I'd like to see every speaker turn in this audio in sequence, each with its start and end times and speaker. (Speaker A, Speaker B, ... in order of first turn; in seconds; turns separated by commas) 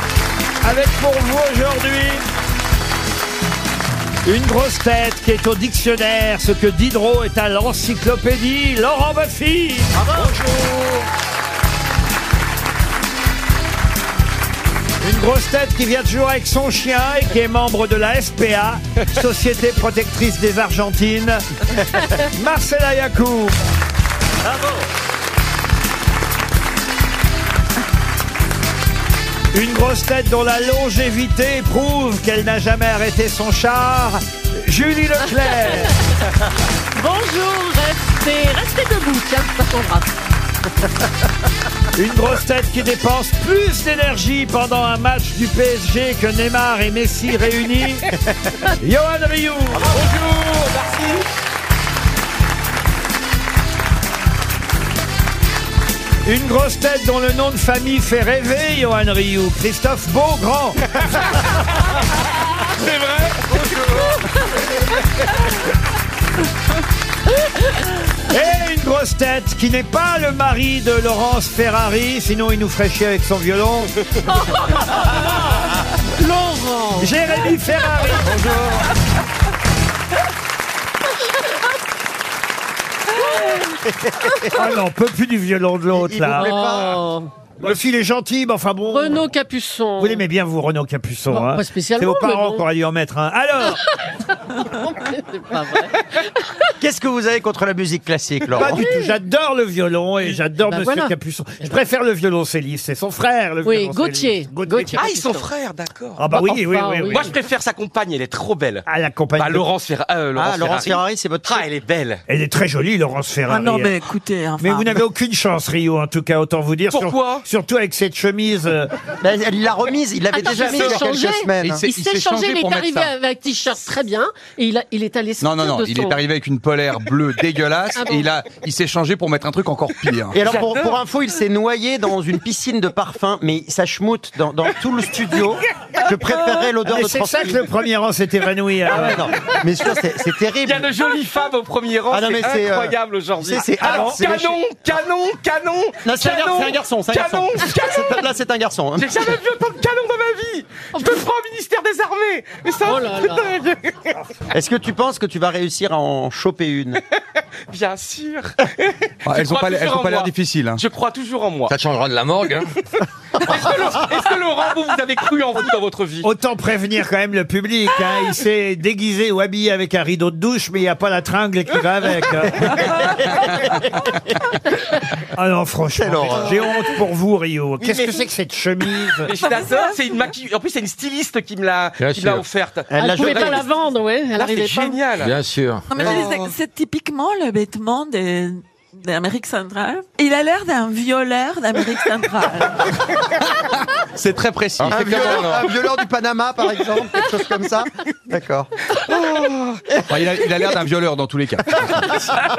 Speaker A: 0.6-2.2, Speaker A: 4.2-11.0, Speaker B: 10.0-10.3, Speaker A: 15.0-21.4, Speaker A: 22.1-23.6, Speaker A: 29.5-36.0, Speaker C: 37.0-40.1, Speaker A: 42.0-48.1, Speaker A: 48.8-50.0, Speaker D: 49.8-51.3, Speaker A: 56.2-61.4, Speaker D: 62.8-63.5, Speaker A: 63.5-64.1, Speaker A: 68.3-73.9, Speaker C: 74.3-75.5, Speaker C: 76.2-77.2, Speaker A: 77.0-78.9, Speaker B: 83.8-84.5, Speaker A: 84.5-86.5, Speaker B: 85.9-87.0, Speaker C: 86.3-87.3, Speaker A: 87.6-89.3, Speaker C: 88.9-90.2, Speaker A: 90.0-93.8, Speaker C: 91.3-92.6, Speaker C: 94.6-96.0, Speaker B: 96.8-98.8, Speaker A: 98.6-105.0, Speaker C: 98.6-99.0, Speaker C: 100.7-101.1, Speaker C: 103.6-105.5, Speaker D: 105.0-106.3, Speaker A: 106.2-107.3, Speaker C: 106.3-107.4, Speaker D: 107.1-108.8, Speaker A: 108.9-109.7, Speaker D: 109.4-112.2, Speaker B: 110.3-111.6, Speaker A: 112.3-113.9, Speaker E: 113.5-115.0, Speaker A: 114.6-118.9, Speaker D: 116.9-117.5, Speaker B: 119.2-121.8, Speaker C: 120.3-126.2, Speaker F: 121.6-123.1, Speaker F: 125.4-130.4, Speaker C: 128.0-128.3, Speaker B: 130.3-137.7, Speaker A: 136.8-139.3, Speaker B: 138.9-140.9, Speaker D: 140.6-148.3, Speaker B: 142.1-144.6, Speaker A: 143.8-144.3, Speaker B: 146.0-149.3, Speaker D: 149.0-154.1, Speaker C: 150.9-151.2, Speaker C: 152.8-153.4, Speaker B: 154.5-157.0, Speaker D: 157.7-161.7, Speaker F: 159.2-160.8, Speaker G: 161.7-162.7, Speaker D: 163.4-166.3, Speaker A: 166.2-173.2, Speaker B: 172.8-173.5, Speaker A: 175.3-179.3, Speaker B: 176.0-176.6, Speaker D: 177.8-178.3, Speaker D: 179.2-183.7, Speaker E: 179.4-180.0, Speaker G: 182.0-182.5, Speaker B: 182.9-183.6, Speaker C: 183.0-185.0, Speaker D: 184.4-185.4, Speaker G: 185.2-186.1, Speaker E: 185.9-193.0, Speaker D: 186.0-186.5, Speaker B: 186.0-186.2, Speaker F: 194.2-195.6, Speaker B: 194.8-198.7, Speaker G: 194.9-195.4, Speaker D: 199.1-199.8, Speaker F: 200.1-202.2